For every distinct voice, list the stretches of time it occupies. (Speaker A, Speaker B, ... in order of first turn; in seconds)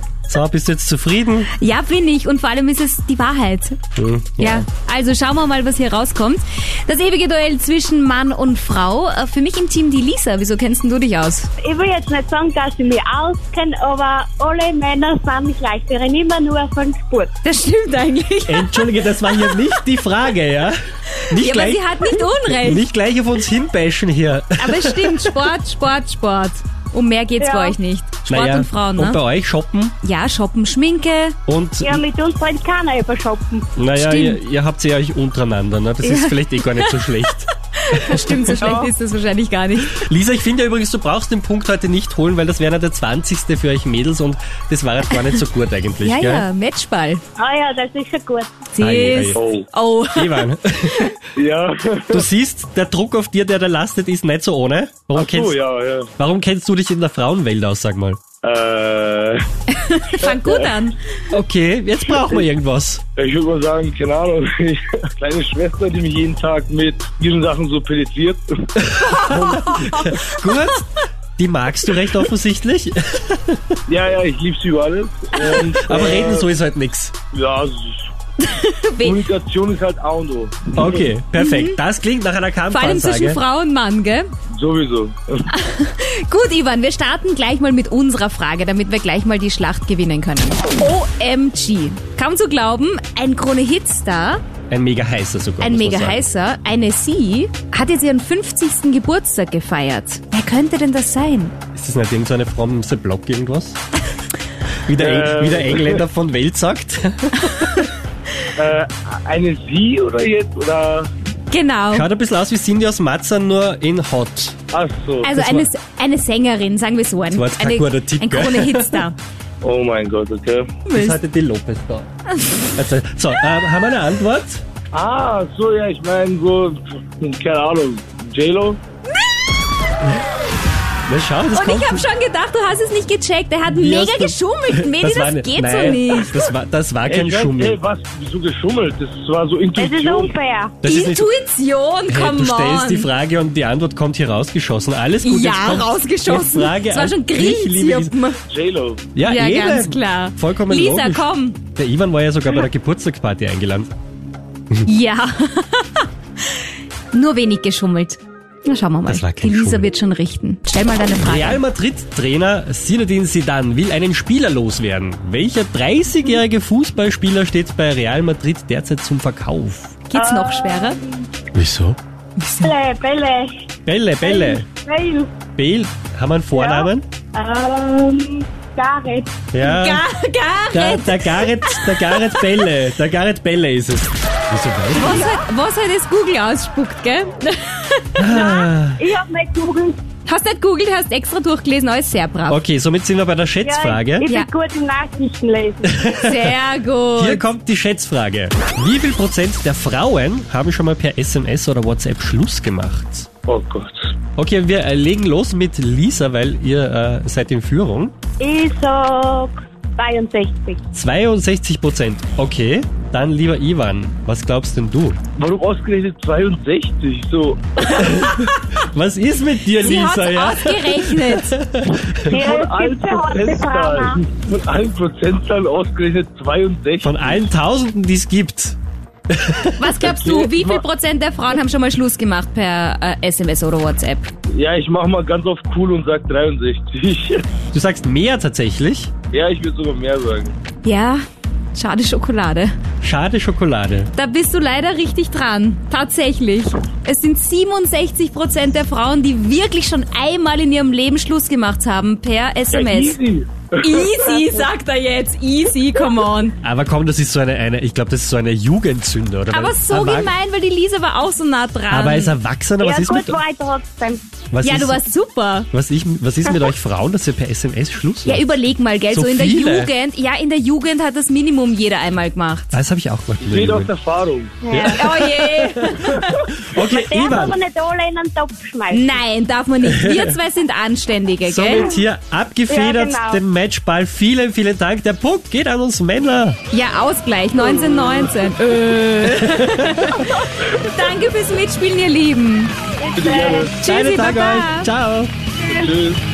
Speaker A: 0.3-1.5, 3.9-4.7, 18.5-25.5, 28.3-29.9, 31.5-32.0, 33.8-38.6, 39.9-46.5, 48.8-49.4, 50.1-51.1, 52.1-55.6, 56.2-58.2, 61.3-63.0, 68.8-70.8, 71.4-73.8, 75.7-77.1, 80.7-83.4, 94.7-96.2, 101.7-103.8, 104.8-107.9, 111.9-114.6, 115.3-115.7, 117.3-119.0, 120.9-122.1, 122.7-124.6, 131.1-132.1, 133.7-137.8, 140.8-141.4, 142.1-148.2, 149.1-153.9, 159.1-159.9, 161.2-170.0, 171.5-172.4, 173.8-174.7, 175.6-177.1, 179.5-180.1, 180.7-185.3, 188.2-189.0, 192.5-194.3, 195.9-196.6, 197.2-203.3, 204.4-208.1, 210.9-215.2, 218.0-222.3, 227.0-228.8, 229.3-230.2, 237.7-239.1, 243.0-244.1, 256.6-260.3, 261.9-263.4, 264.5-265.0, 265.7-268.4, 269.1-269.9, 272.7-273.9, 274.7-277.6, 279.9-280.3, 281.4-286.6, 289.2-290.3, 293.8-295.3
Speaker B: 1.6-3.8, 4.4-11.5, 17.4-19.7, 21.2-22.8, 24.6-29.2, 30.0-31.4, 33.9-34.4, 36.0-40.0, 46.0-47.2, 48.7-51.1, 59.7-61.1, 70.5-70.8, 78.4-79.2, 81.3-81.8, 82.7-84.3, 85.5-94.4, 95.6-101.5, 107.4-107.9, 111.5-112.1, 115.2-119.2, 120.9-121.2, 122.4-122.7, 131.5-136.4, 140.8-143.1, 145.2-148.4, 149.2-151.6, 154.8-161.6, 170.1-171.0, 179.6-182.6, 184.9-188.2, 190.2-192.6, 196.2-197.4, 219.8-221.6, 229.8-234.3, 240.8-241.2, 241.7-242.7, 244.1-253.2, 253.8-256.6, 259.5-262.4, 264.6-265.7, 268.2-272.7, 274.7-276.4, 278.9-281.9, 286.7-292.7, 293.8-294.9
Speaker C: 11.6-17.3, 27.4-27.8, 31.8-33.7, 38.6-38.9, 47.4-48.6, 139.8-140.7, 170.1-171.2, 172.6-173.5, 174.2-175.3, 176.5-179.3, 188.3-190.0, 193.6-195.9, 208.4-210.8, 222.3-224.2, 262.8-264.2, 274.6-275.1, 276.5-279.2, 282.7-283.4, 287.6-288.2, 293.0-293.7, 295.6-295.9
Speaker D: 49.3-49.6, 51.4-52.2, 55.1-56.1, 58.4-59.4, 60.2-60.7, 63.2-68.5, 69.2-70.0, 73.9-76.5, 77.3-78.1, 79.0-81.1, 84.5-85.4, 105.0-106.0, 108.5-111.1, 114.7-115.3, 119.6-120.8, 124.9-128.8, 137.0-140.3, 148.5-149.0, 203.5-204.0, 215.4-218.2, 222.3-227.3, 230.0-230.8, 234.5-237.4, 239.3-240.6, 252.7-254.2, 273.4-274.6, 293.1-293.7, 295.7-296.2